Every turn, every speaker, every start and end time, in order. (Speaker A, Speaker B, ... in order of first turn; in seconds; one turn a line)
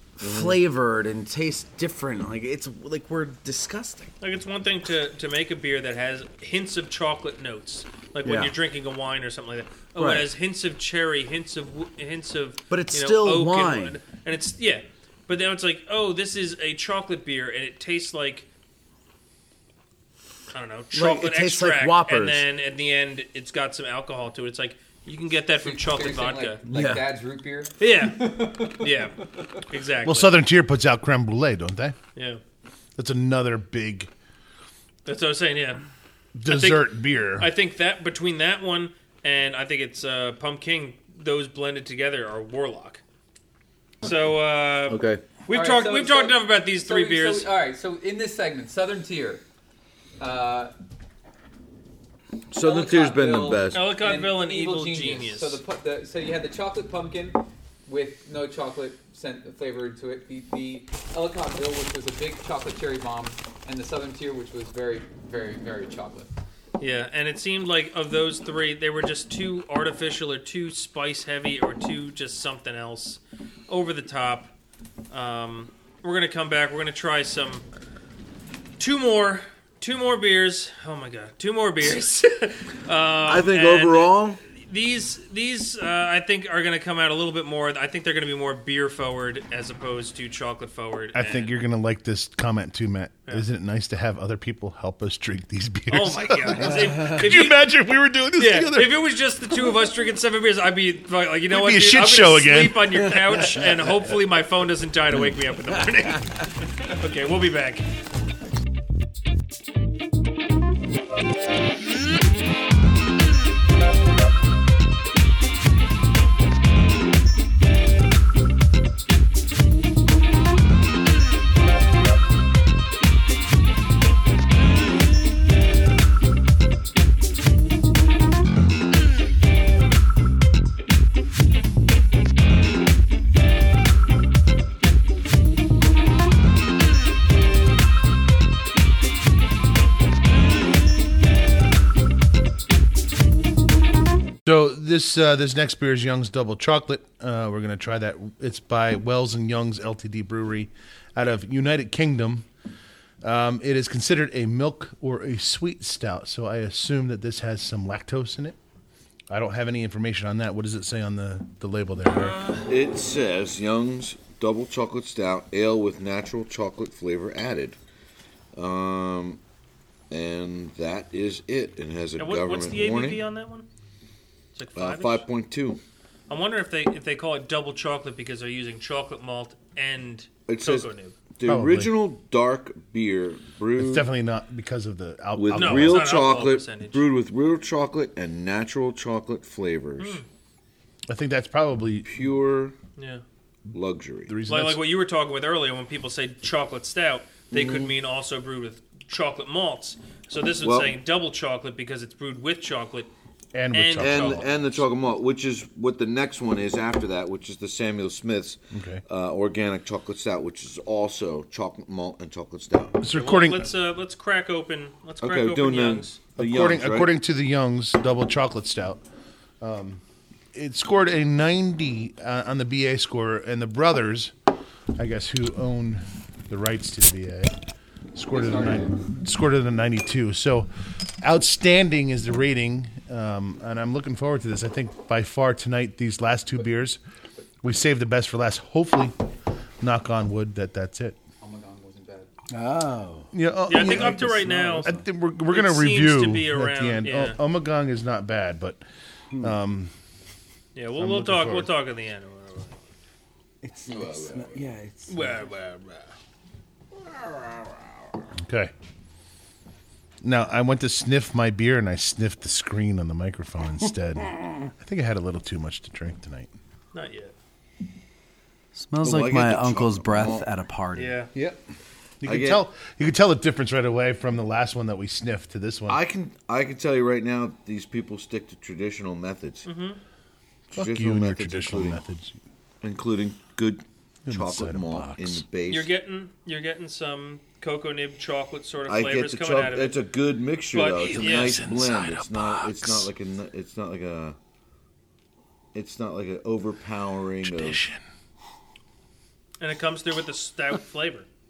Speaker A: 0.2-4.1
Speaker B: 0.2-0.6
Speaker C: 4.2-18.5
Speaker A: 8.2-8.5
Speaker A: 10.0-10.3
Speaker A: 12.7-14.0
Speaker C: 20.5-26.6
Speaker A: 20.9-22.4
Speaker D: 25.6-29.6
Speaker A: 26.7-27.1
Speaker C: 27.8-30.3
Speaker E: 30.0-32.0
Speaker C: 32.1-32.4
Speaker E: 33.0-34.1
Speaker C: 35.0-35.8
Speaker E: 36.4-37.5
Speaker C: 36.5-43.0
Speaker C: 44.0-47.5
Speaker B: 44.9-45.2
Speaker D: 45.5-49.4
Speaker D: 50.2-50.7
Speaker B: 52.5-53.9
Speaker D: 52.6-66.3
Speaker C: 53.7-55.6
Speaker C: 66.8-74.5
Speaker C: 75.1-77.7
Speaker C: 78.8-91.6
Speaker B: 83.2-84.4
Speaker E: 91.1-99.0
Speaker C: 95.9-97.7
Speaker C: 98.4-107.9
Speaker E: 101.5-103.2
Speaker E: 144.4-152.5
Speaker E: 153.2-158.6
Speaker E: 159.3-162.4
Speaker C: 162.1-162.7
Speaker B: 162.7-167.8
Speaker B: 168.5-169.4
Speaker B: 170.1-173.2
Speaker C: 172.2-173.7
Speaker C: 174.6-175.2
Speaker B: 174.8-175.8
Speaker C: 176.3-181.2
Speaker B: 180.5-184.1
Speaker E: 181.5-181.9
Speaker E: 183.8-186.1
Speaker B: 185.3-190.2
Speaker C: 185.5-187.0
Speaker C: 190.0-190.2
Speaker E: 191.1-192.1
Speaker B: 192.1-192.8
Speaker C: 193.0-193.2
Speaker B: 193.7-194.4
Speaker E: 194.3-194.8
Speaker C: 194.5-203.1
Speaker B: 197.5-198.0
Speaker B: 200.6-201.0
Speaker E: 203.5-204.6
Speaker C: 203.7-204.4
Speaker B: 204.0-213.0
Speaker E: 208.7-209.0
Speaker E: 213.0-213.7
Speaker C: 213.1-216.2
Speaker B: 215.2-217.2
Speaker E: 216.4-219.0
Speaker E: 219.6-220.0
Speaker E: 220.5-224.3
Speaker E: 224.9-227.5
Speaker E: 228.2-230.7
Speaker D: 228.3-229.1
Speaker E: 231.2-237.0
Speaker E: 237.6-239.2
Speaker E: 239.8-241.2
Speaker D: 241.4-242.3
Speaker A: 242.5-243.3
Speaker E: 243.3-248.8
Speaker C: 243.7-244.9
Speaker A: 244.1-245.0
Speaker C: 245.5-247.4
Speaker E: 249.4-249.9
Speaker C: 250.8-252.8
Speaker E: 250.9-251.7
Speaker A: 253.6-255.4
Speaker D: 253.9-254.7
Speaker C: 255.1-256.1
Speaker E: 258.4-258.7
Speaker E: 260.2-266.5
Speaker C: 266.9-267.3
Speaker A: 268.8-271.6
Speaker B: 269.0-270.5
Speaker C: 270.9-271.3
Speaker E: 272.2-276.0
Speaker B: 272.2-272.6
Speaker B: 275.9-279.7
Speaker C: 279.6-280.0
Speaker B: 280.7-282.0
Speaker E: 280.8-282.4
Speaker B: 282.8-285.9
Speaker E: 284.3-285.4
Speaker C: 285.7-290.0
Speaker B: 288.9-294.4
Speaker C: 290.7-291.6
Speaker E: 291.0-293.1
Speaker B: 295.7-297.8
Speaker E: 297.4-298.0
Speaker C: 299.6-301.3